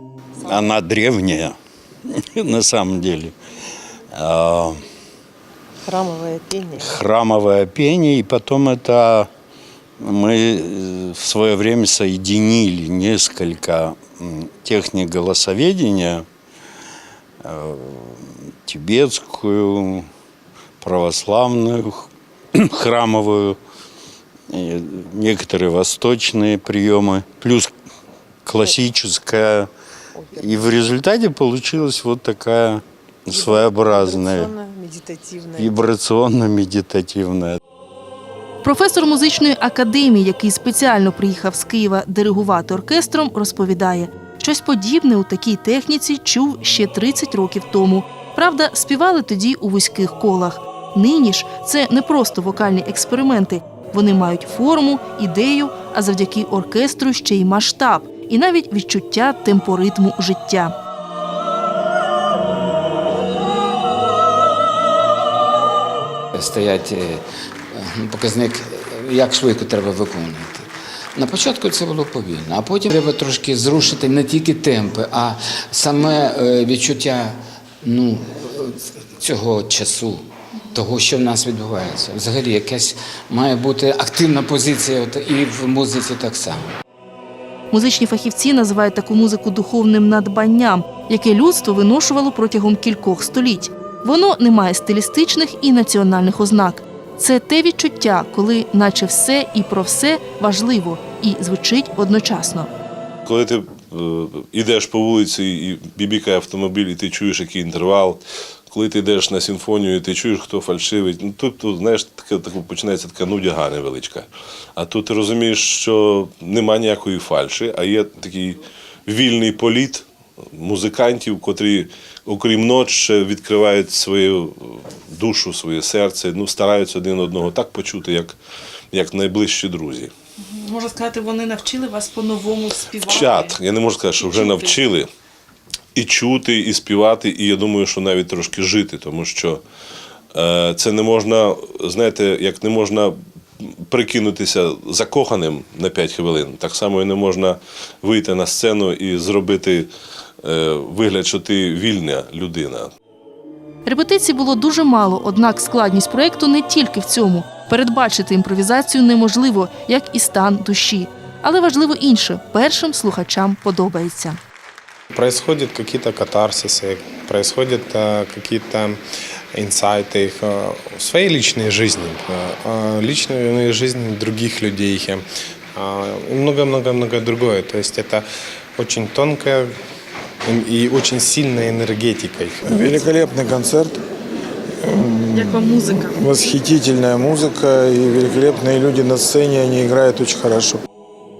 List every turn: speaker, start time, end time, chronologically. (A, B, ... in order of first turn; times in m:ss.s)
0:00.4-0:01.6 A
0:02.1-0:03.3 A
0:04.1-0:04.8 A
0:05.9-0:06.8 B
0:06.8-0:09.3 A
0:10.0-0:16.2 A
0:17.4-0:20.1 A
0:20.8-0:23.6 A
0:24.5-0:27.7 A
0:28.4-0:29.7 A
0:30.4-0:34.5 A
0:34.0-0:35.6 B
0:34.4-0:35.2 C
0:35.6-0:37.6 A
0:38.6-1:00.7 D
1:06.3-1:07.2 E
1:07.7-1:26.6 E
1:27.7-1:42.7 D
1:43.3-2:08.4 F
2:08.9-2:10.1 F
2:10.5-2:13.4 C
2:12.9-2:15.1 F
2:15.9-2:19.6 F
2:20.3-2:29.9 F
2:30.4-2:32.9 F
2:33.9-2:44.4 D
2:45.1-2:49.0 G
2:49.5-2:55.2 G
2:55.8-2:58.2 G
2:58.8-2:59.7 G
3:00.5-3:02.8 G
3:02.7-3:04.0 H
3:04.8-3:10.8 H